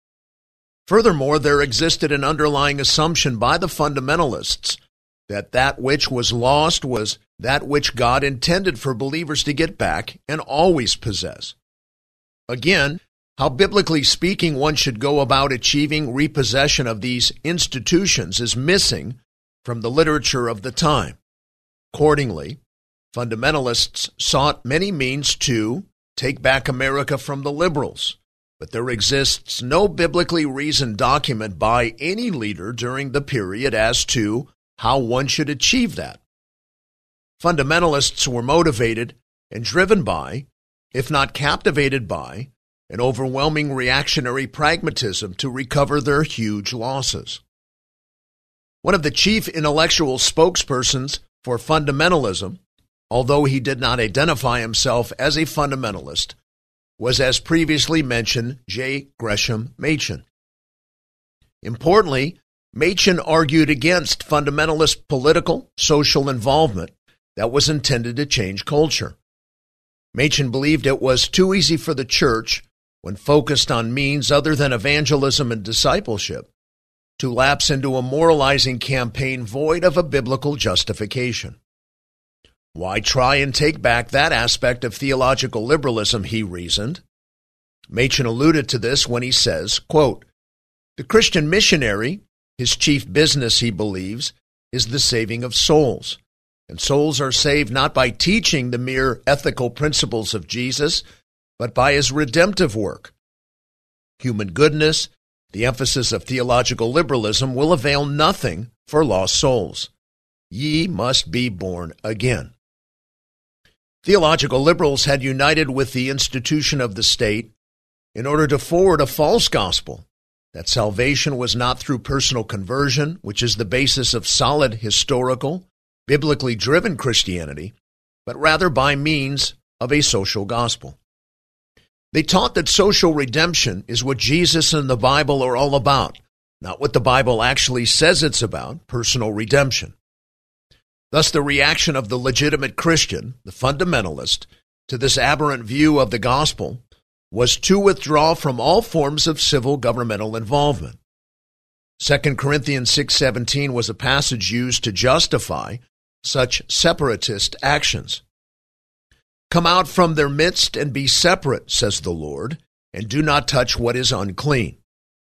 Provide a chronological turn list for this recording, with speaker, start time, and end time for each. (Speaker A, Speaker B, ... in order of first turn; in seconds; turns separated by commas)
Speaker A: 0.9-11.6, Speaker A: 12.5-21.2, Speaker A: 21.9-22.6, Speaker A: 23.1-36.2, Speaker A: 37.4-47.4, Speaker A: 48.8-52.6, Speaker A: 53.1-56.4, Speaker A: 57.0-60.2, Speaker A: 61.6-69.2, Speaker A: 70.1-76.5, Speaker A: 77.2-81.6, Speaker A: 82.7-87.0, Speaker A: 87.9-90.3, Speaker A: 91.0-101.0, Speaker A: 101.6-103.1, Speaker A: 104.2-109.9, Speaker A: 110.5-112.5, Speaker A: 114.0-117.5, Speaker A: 118.2-127.8, Speaker A: 128.3-131.0, Speaker A: 132.1-139.9, Speaker A: 141.1-151.0, Speaker A: 152.0-158.2, Speaker A: 159.5-164.8